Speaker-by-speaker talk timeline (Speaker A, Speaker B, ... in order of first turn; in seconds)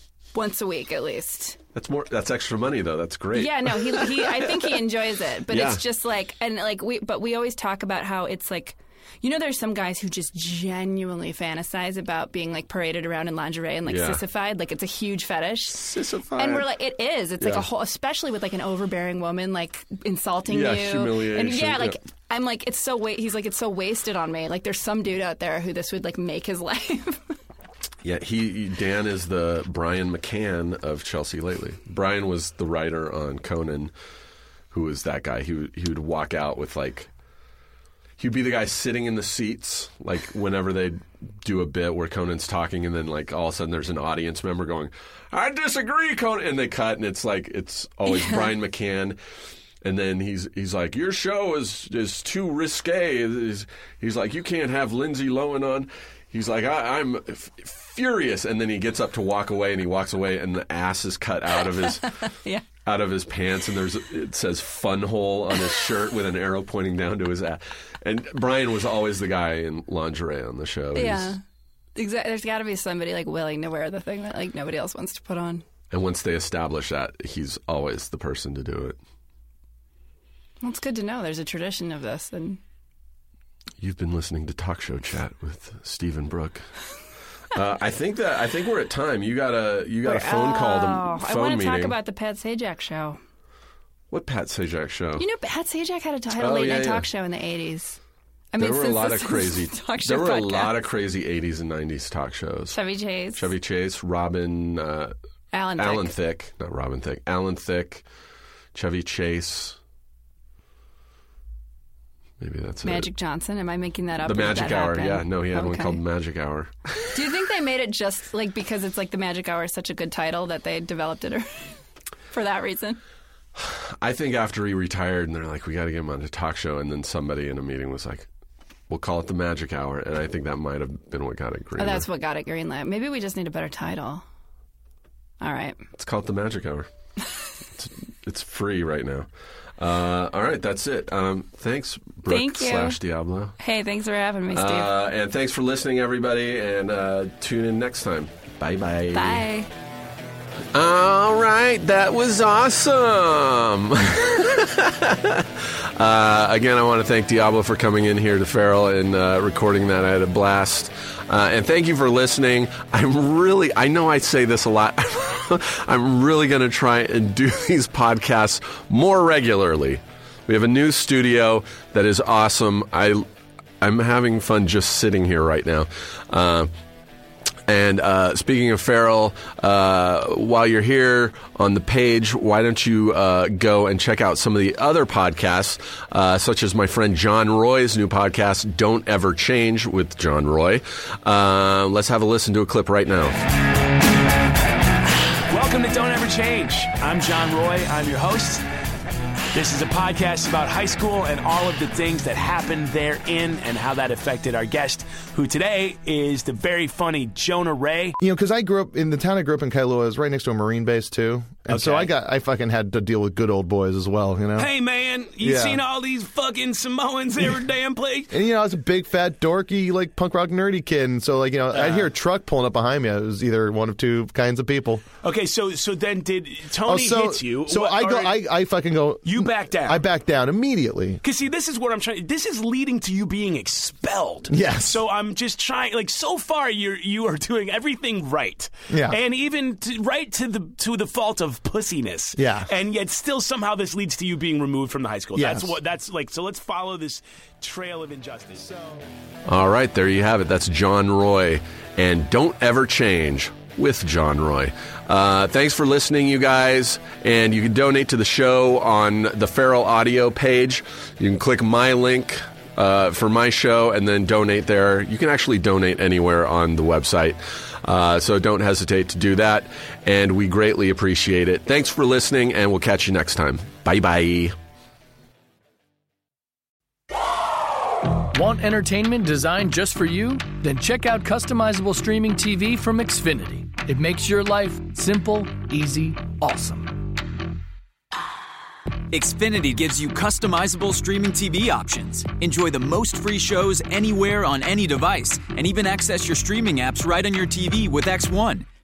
Speaker A: 0.3-1.6, 3.3-27.3, 48.1-48.5, 61.8-62.6, 71.0-71.4, 72.0-75.6, 80.6-82.6, 90.0-93.2, 95.2-98.0, 98.5-100.8, 102.7-103.5, 105.5-106.1, 112.8-116.0, 117.1-121.7, 122.3-123.0, 131.8-134.2, 135.4-135.9, 142.3-143.0, 143.6-144.9, 149.1-149.7
Speaker B: 1.7-4.6, 5.5-5.8, 13.9-14.2, 15.7-16.7, 17.4-17.6, 20.5-22.0, 28.0-33.9, 34.7-37.1, 38.2-49.2, 49.8-62.1, 62.8-71.4, 75.9-79.0, 83.8-86.7, 87.5-92.0, 94.1-95.2, 96.4-97.1, 98.6-102.8, 103.3-105.1, 105.8-108.0, 108.7-109.8, 112.4-113.1, 114.2-117.1, 123.5-128.3, 128.9-132.1, 135.9-136.9, 137.7-143.6, 144.5-149.4, 150.7-173.3, 173.8-176.7, 177.7-193.4, 249.5-274.6
Speaker C: 195.5-198.6, 199.5-208.2, 211.7-212.1, 214.6-218.3, 221.7-222.1, 225.2-228.4, 229.2-230.1, 231.2-249.1
Speaker D: 208.2-214.7, 215.4-215.8, 218.3-225.0, 226.8-231.2, 234.5-235.0, 238.9-239.2, 242.4-242.7, 245.3-245.8
Speaker E: 278.3-287.1
Speaker F: 289.1-298.7